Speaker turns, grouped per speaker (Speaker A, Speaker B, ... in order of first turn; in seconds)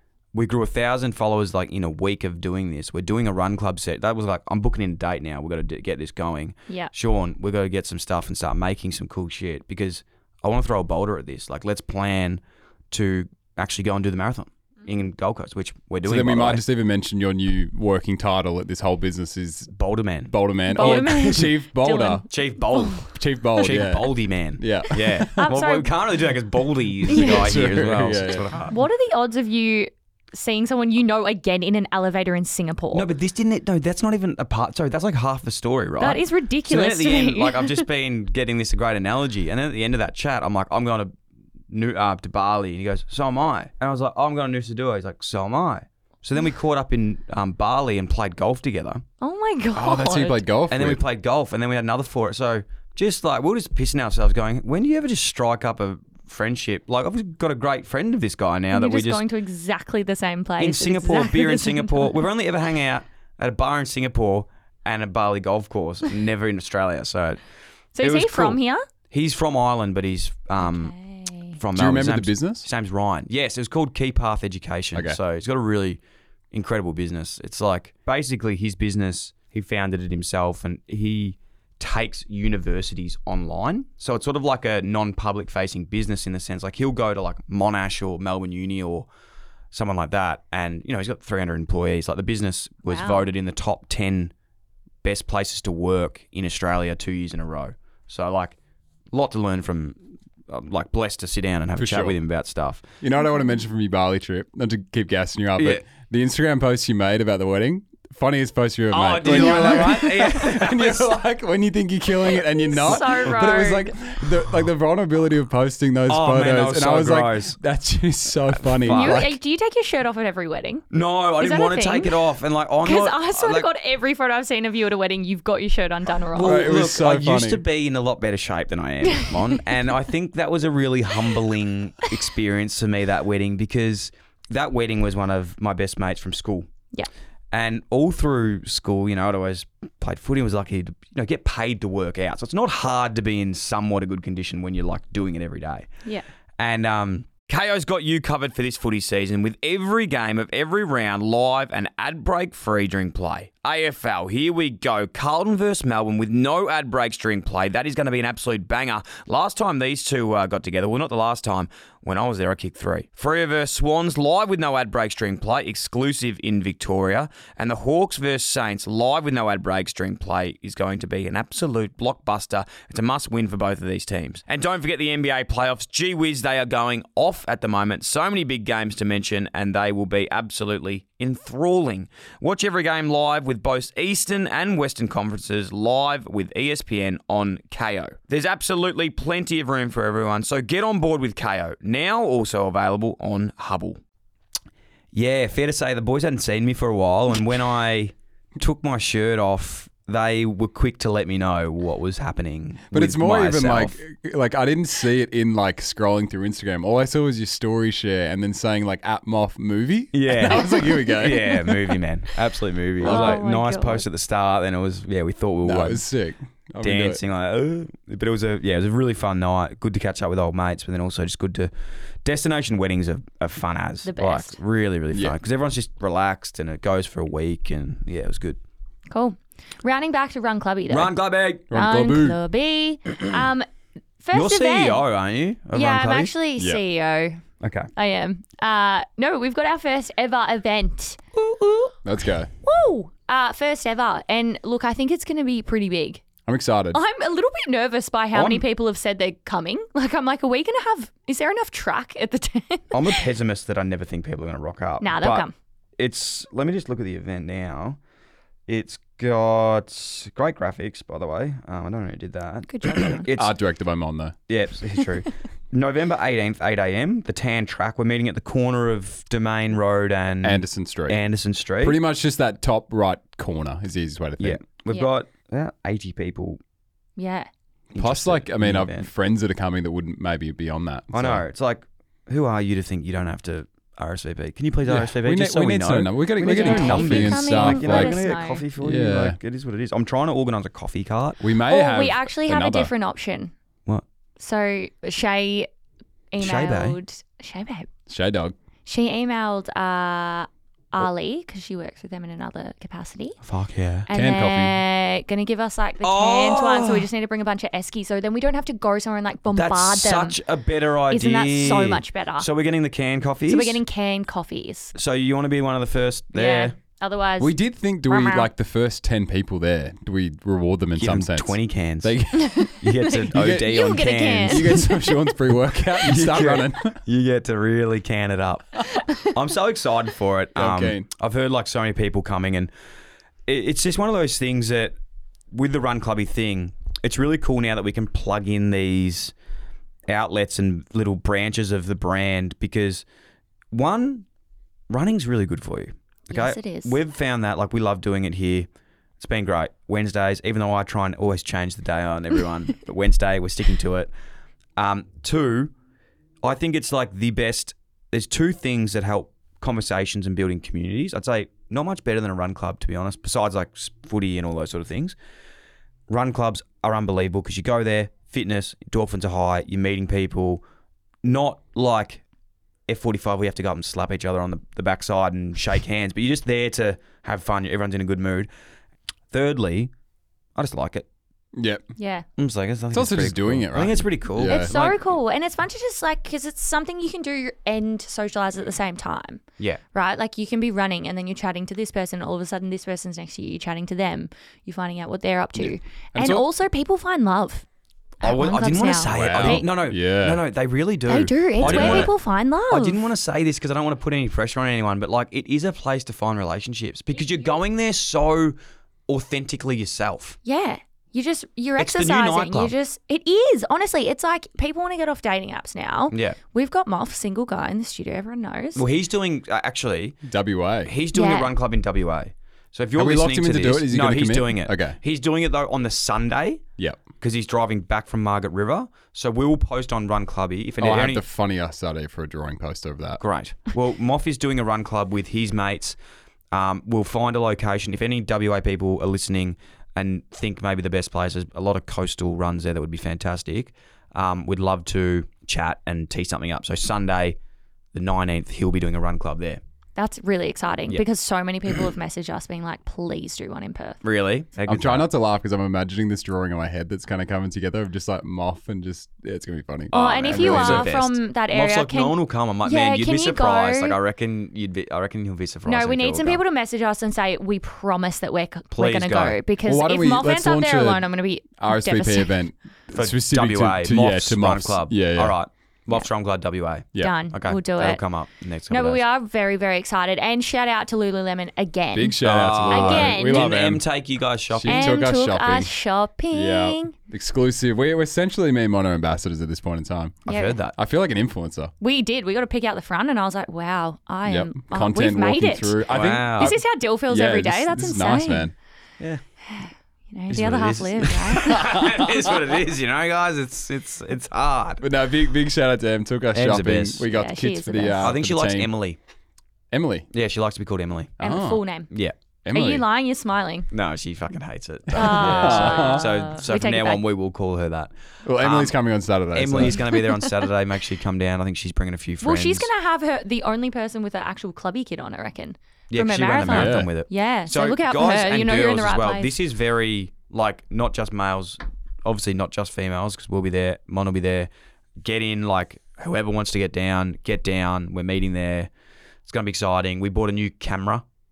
Speaker A: 0.3-16.6, 19.7-21.2, 22.3-28.8, 32.9-41.1, 41.7-49.0, 50.7-59.2, 60.6-67.4, 68.0-68.6, 69.1-70.9, 71.6-76.0, 76.5-89.1, 89.7-94.3, 95.0-98.6, 99.1-102.8, 105.6-105.8, 108.9-111.2, 116.1-117.6, 118.8-119.2, 120.9-123.7, 126.3-136.7, 137.5-145.9, 146.6-194.0, 195.1-204.0, 210.1-216.1, 216.8-221.7, 222.2-228.6, 230.9-231.7, 234.3-236.3, 237.6-237.9, 241.4-241.9, 248.3-248.6, 252.9-255.5, 256.0-258.0, 258.7-263.5, 264.5-272.0, 274.4-276.6, 277.9-279.1, 281.1-291.4, 296.4-297.0, 303.4-304.1, 306.0-307.1, 309.5-313.8, 314.9-316.8, 321.0-324.9, 326.0-332.7, 333.5-335.0, 335.5-339.3, 340.1-343.0, 343.7-344.3, 344.9-348.7, 349.2-354.1, 354.8-355.7, 356.4-365.2, 366.1-370.6, 371.2-372.2, 372.9-378.5, 379.3-379.9, 380.6-381.1, 382.4-385.0, 398.2-402.1, 402.7-408.6, 409.1-410.4, 411.8-412.7, 416.1-416.4, 418.8-420.2, 420.9-426.6, 427.2-431.2, 433.2-436.0, 436.5-447.4, 447.9-449.6, 454.0-455.1, 459.9-466.4, 468.7-469.4, 472.9-479.0, 482.2-485.0, 490.3-490.8, 495.9-496.6, 500.3-504.8, 506.3-507.1, 508.0-509.0, 510.1-511.1, 513.7-518.8, 519.3-522.7, 525.9-534.5, 535.0-538.7, 539.2-541.0
Speaker B: 16.0-19.7, 20.3-22.3, 22.9-25.6, 27.1-28.5, 49.7-51.0, 71.7-72.7, 101.8-102.2, 103.0-119.4, 126.4-127.6, 202.9-212.0, 213.0-213.4, 215.7-217.2, 231.7-232.4, 242.1-242.5, 246.5-247.0, 263.3-264.4, 270.4-271.2, 271.8-274.6, 278.0-281.4, 284.9-289.4, 291.4-292.9, 298.1-298.6, 304.1-304.8, 317.4-323.8, 324.5-327.0, 330.6-331.1, 381.5-381.8, 382.9-384.7, 395.6-396.4, 399.1-400.4, 401.6-402.1, 420.2-420.9, 423.0-425.0, 430.8-433.2, 454.7-460.9, 469.7-471.1, 471.6-475.4, 481.9-483.9, 484.5-485.7, 486.3-490.2, 490.8-491.7, 494.3-498.6, 504.8-508.7, 509.7-510.1, 511.2-511.6, 512.5-512.9, 514.9-516.1, 518.2-519.8, 526.5-526.9
Speaker C: 20.7-23.0, 25.4-25.9, 27.1-27.5, 28.7-33.1, 36.0-37.9, 49.2-50.4, 58.7-62.1, 68.0-68.8, 70.6-71.6, 92.9-93.2, 109.5-109.8, 112.7-114.0, 118.9-120.9, 121.4-122.2, 122.8-126.6, 129.1-129.4, 213.0-214.1, 224.1-224.6, 229.1-231.1, 231.7-233.7, 234.2-235.0, 235.7-237.4, 238.0-241.3, 242.6-246.2, 246.9-253.2, 255.0-255.5, 262.7-263.2, 277.2-277.5, 286.4-288.6, 291.7-293.5, 294.4-295.7, 296.3-297.9, 298.9-303.4, 304.1-310.4, 311.1-312.5, 313.5-314.9, 316.3-318.5, 322.4-325.2, 346.3-347.0, 382.0-382.3, 384.5-389.4, 389.9-397.7, 398.2-399.6, 401.1-403.0, 410.4-418.8, 421.1-421.5, 450.0-454.0, 459.9-464.0, 465.7-472.4, 477.0-478.0, 478.7-483.6, 484.7-486.9, 490.3-490.6, 491.8-498.5, 499.5-501.9, 507.1-508.2, 511.2-511.9, 512.5-513.7, 514.9-517.0, 522.2-529.3